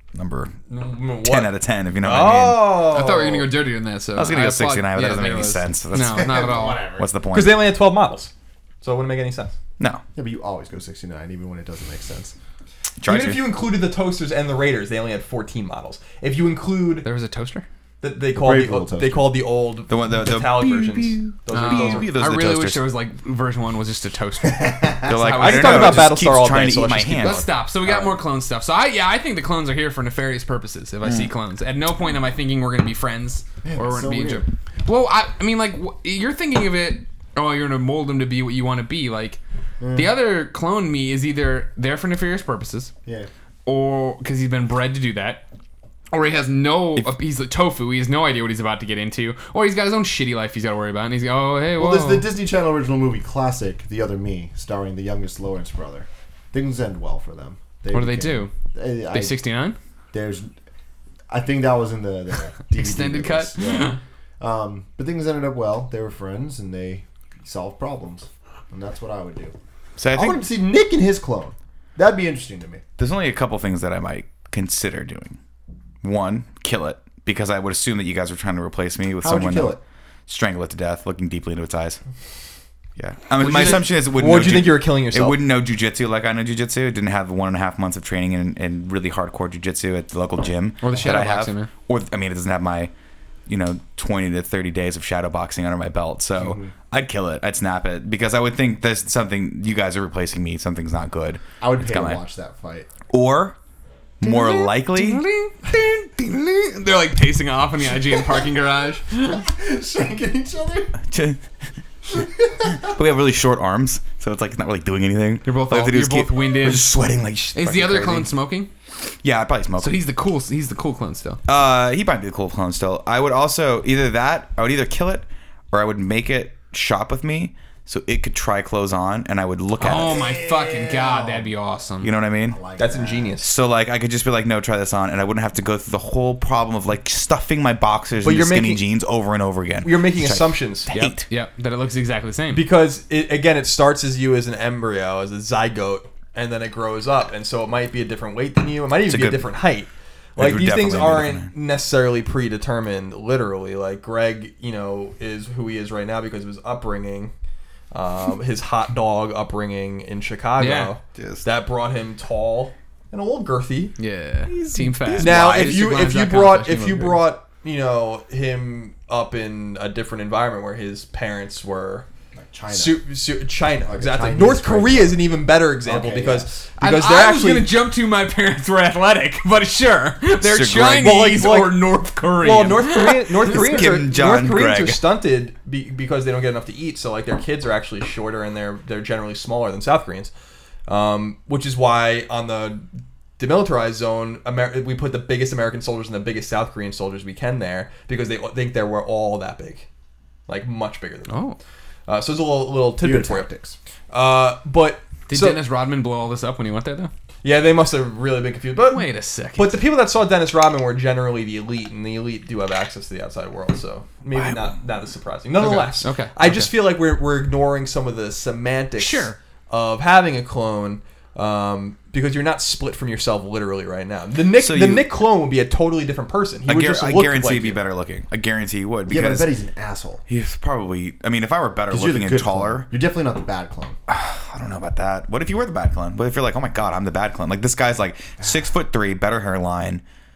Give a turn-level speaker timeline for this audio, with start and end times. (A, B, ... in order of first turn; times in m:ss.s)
0:00.2-0:00.5 A
0:00.7-0:03.5 B
0:01.2-0:02.8 A
0:02.7-0:06.9 C
0:04.1-0:07.7 A
0:06.0-0:07.1 D
0:07.3-0:08.3 B
0:08.8-0:09.5 B
0:10.2-0:12.3 D
0:13.0-0:13.4 A
0:13.0-0:17.1 B
0:17.0-0:17.7 C
0:18.0-0:22.1 B
0:18.3-0:19.3 D
0:19.9-0:22.8 A
0:21.5-0:26.2 C
0:24.4-0:25.2 D
0:25.1-0:27.4 A
0:25.2-0:27.5 B
0:27.2-0:39.4 C
0:31.0-0:31.3 A
0:33.6-0:34.5 D
0:39.8-0:40.2 D
0:39.9-0:42.9 C
0:43.7-0:45.5 C
0:46.1-0:52.3 C
0:51.8-0:59.4 D
0:57.9-0:58.5 C
0:59.1-0:59.8 C
1:00.1-1:00.5 D
1:01.3-1:09.6 D
1:02.7-1:04.0 C
1:10.0-1:10.4 A
1:10.1-1:12.8 D
1:13.0-1:15.4 A
1:16.0-1:22.0 A
1:19.2-1:19.8 D
1:23.0-1:32.9 A
1:23.4-1:25.4 B
1:30.8-1:31.7 C
1:33.5-1:42.2 A
1:36.4-1:36.7 D
1:41.6-1:42.9 D
1:43.1-1:43.6 A
1:44.2-1:45.2 A
1:44.2-1:49.5 C
1:49.4-1:51.0 D
1:51.1-1:51.4 A
1:52.2-1:52.8 D
1:52.6-1:58.3 A
1:55.4-1:57.0 C
1:57.5-1:58.7 C
1:59.2-2:00.0 A
1:59.8-2:01.4 C
2:01.5-2:10.2 A
2:09.8-2:12.1 C
2:09.9-2:11.5 D
2:12.0-2:12.6 A
2:12.5-2:13.4 D
2:12.8-2:13.5 B
2:13.4-2:21.3 A
2:18.2-2:18.8 B
2:19.8-2:20.9 B
2:20.9-2:22.6 C
2:22.5-2:37.3 B
2:29.1-2:29.5 A
2:30.4-2:31.5 A
2:37.9-2:44.0 B
2:40.6-2:40.9 C
2:41.2-2:41.4 A
2:44.0-2:47.3 C
2:44.5-2:46.0 A
2:45.2-2:52.1 B
2:52.4-2:53.0 D
2:52.7-2:57.7 B
2:53.9-2:55.3 D
2:55.8-2:56.6 D
2:56.8-3:03.8 C
3:00.4-3:01.2 A
3:01.0-3:10.3 B
3:03.4-3:05.0 A
3:10.9-3:19.9 B
3:20.5-3:21.4 B
3:21.3-3:21.6 C
3:22.1-3:23.5 B
3:23.0-3:23.8 D
3:24.1-3:25.6 B
3:25.3-3:27.1 C
3:27.4-3:47.8 B
3:28.8-3:29.8 C
3:34.3-3:34.7 A
3:35.6-3:36.7 C
3:39.0-3:39.4 C
3:44.6-3:45.1 A
3:46.7-3:49.5 A
3:49.1-3:50.2 D
3:50.3-3:52.9 A
3:51.9-3:54.0 D
3:54.1-4:00.0 A